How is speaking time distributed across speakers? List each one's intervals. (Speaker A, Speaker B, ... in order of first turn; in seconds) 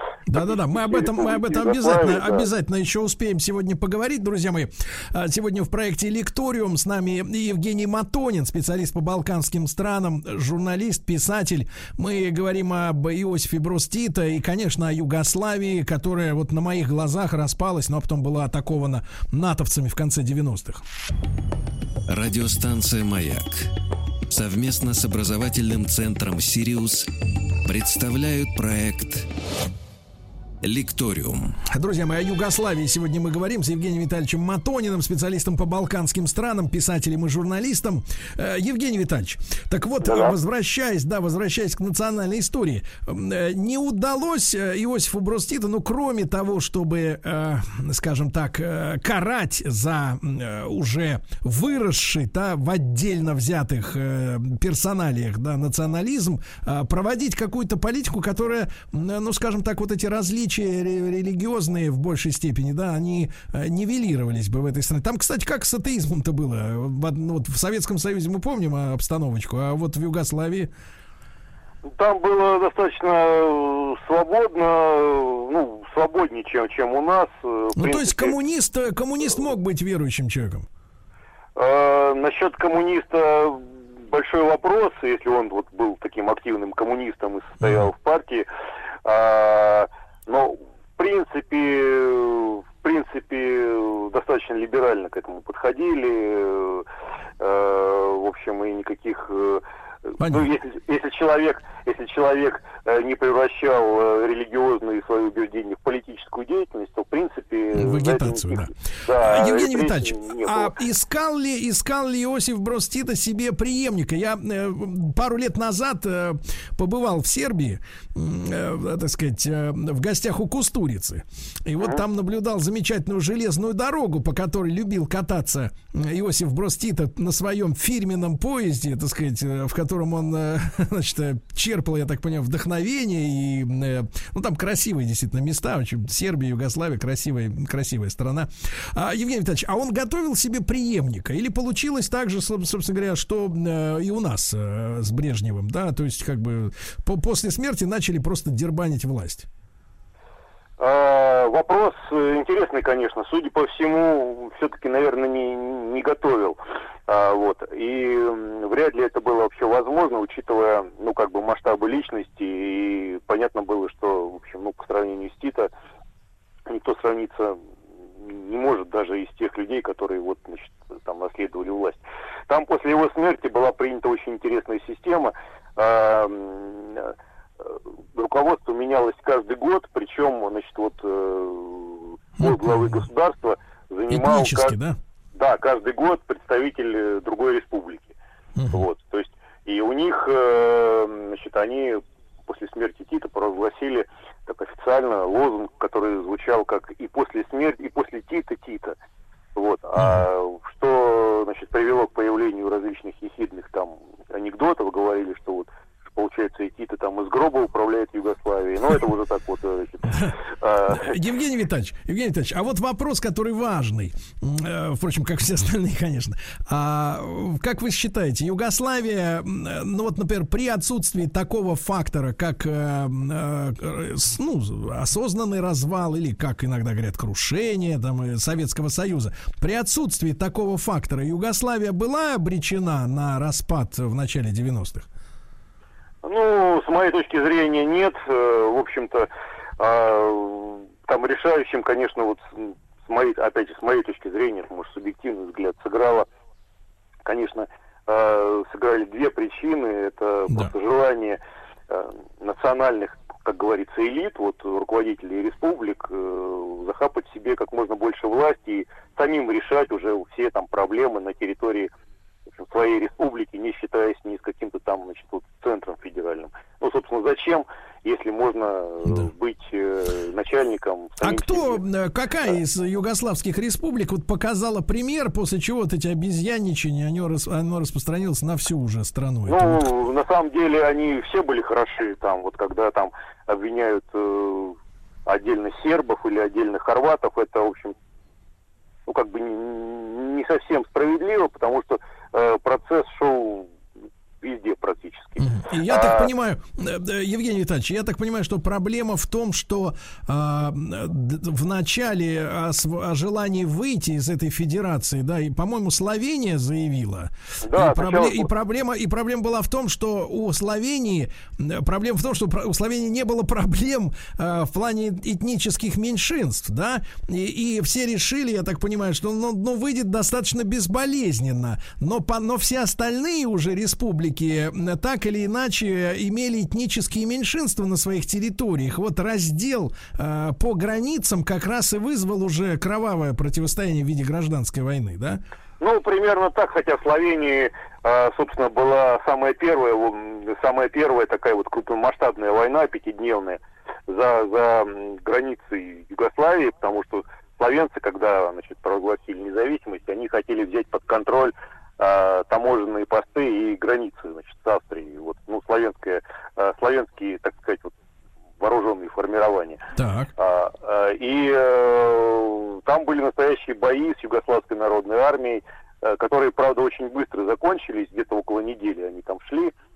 Speaker A: 0.3-20.8, 31.6-70.7, 77.8-80.7, 100.2-100.5, 107.7-149.5, 182.4-183.0, 184.1-185.0, 188.6-188.8, 200.0-200.2, 210.9-235.1, 271.2-279.9, 295.4-335.4, 360.0-360.3
Speaker B: 0.3-2.5, 40.0-40.4, 71.9-78.4, 81.6-88.5, 89.0-96.9, 97.4-110.8, 150.8-165.7, 166.7-167.6, 168.2-184.8, 185.3-188.1, 188.7-199.0, 199.6-211.2, 236.2-239.3, 239.8-246.3, 247.2-261.9, 262.5-271.8, 279.5-288.0, 289.1-293.7, 294.4-296.3, 307.6-308.5, 335.8-357.9, 358.6-359.8, 360.4-369.7
Speaker C: 22.1-23.7, 24.3-27.1, 27.6-29.3, 30.6-31.6